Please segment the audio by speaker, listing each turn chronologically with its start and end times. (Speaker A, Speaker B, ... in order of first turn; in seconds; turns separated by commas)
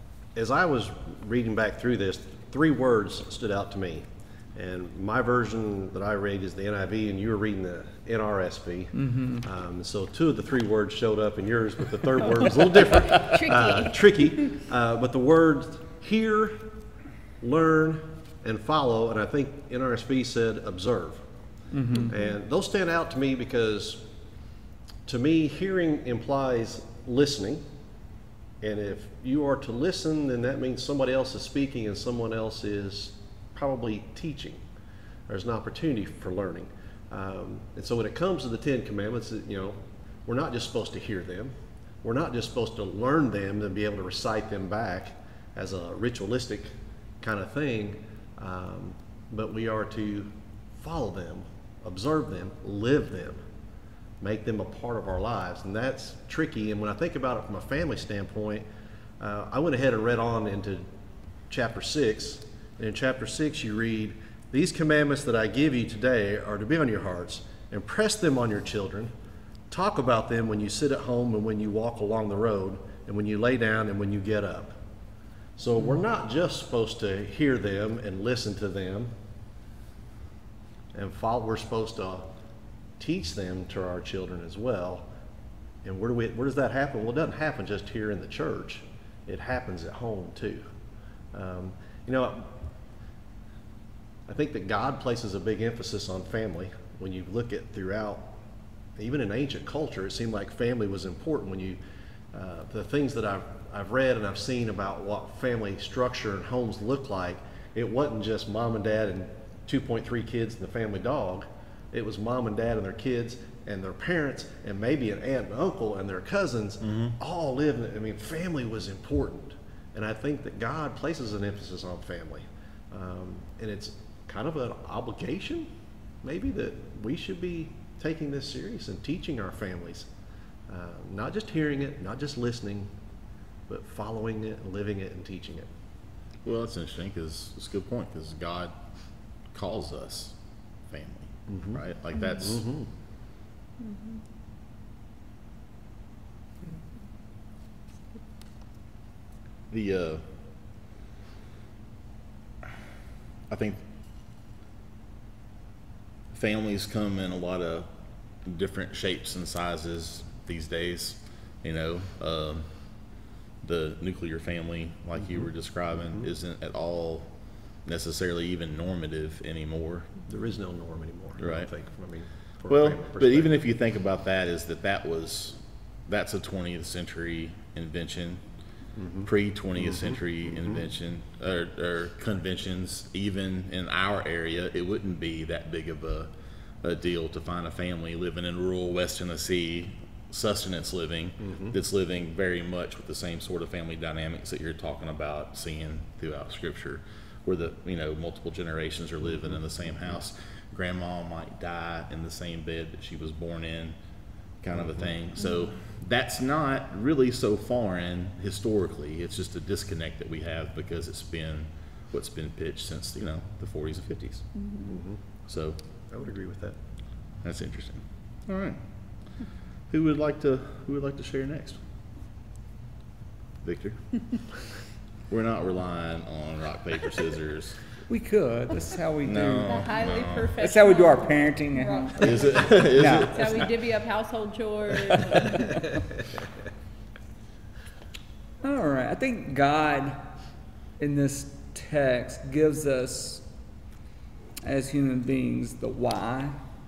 Speaker A: 0.3-16.7, Speaker B: 9.0-9.4, Speaker C: 13.0-14.5, Speaker A: 17.4-21.2, Speaker B: 21.7-22.1, Speaker A: 22.1-24.1, Speaker A: 25.1-27.6, Speaker A: 28.6-34.6, Speaker A: 35.3-53.4, Speaker A: 54.2-58.7, Speaker A: 59.2-60.9, Speaker A: 61.5-69.1, Speaker A: 69.7-74.8, Speaker A: 75.6-79.1, Speaker A: 80.9-82.3, Speaker A: 83.0-85.1, Speaker A: 85.8-90.7, Speaker A: 91.3-92.5, Speaker A: 94.3-98.3, Speaker A: 99.0-101.8, Speaker A: 102.3-125.7, Speaker D: 116.8-117.2, Speaker A: 126.2-130.1, Speaker A: 130.7-132.9, Speaker A: 133.7-135.7, Speaker D: 136.4-138.8, Speaker D: 139.5-140.4, Speaker D: 140.9-142.7, Speaker A: 141.5-141.8, Speaker A: 142.4-142.9, Speaker D: 149.7-150.3, Speaker D: 153.5-153.8, Speaker D: 156.3-157.9, Speaker D: 158.4-162.7, Speaker D: 163.6-167.3, Speaker D: 167.8-170.2, Speaker A: 170.3-173.6, Speaker D: 171.4-171.7, Speaker D: 172.7-178.4, Speaker A: 179.0-179.3, Speaker D: 179.3-186.3, Speaker A: 179.8-180.8, Speaker D: 186.8-204.0, Speaker A: 191.5-191.7, Speaker D: 204.6-214.5, Speaker C: 214.6-215.0, Speaker A: 214.9-215.2, Speaker D: 215.5-215.8, Speaker A: 216.1-216.8, Speaker D: 217.4-218.8, Speaker D: 219.9-221.8, Speaker D: 223.6-224.0, Speaker D: 225.3-227.8, Speaker B: 228.1-229.9, Speaker D: 229.2-230.6, Speaker C: 229.7-235.9, Speaker B: 230.6-233.7, Speaker D: 232.2-233.7, Speaker B: 238.6-240.3, Speaker B: 241.0-243.4, Speaker B: 244.6-246.6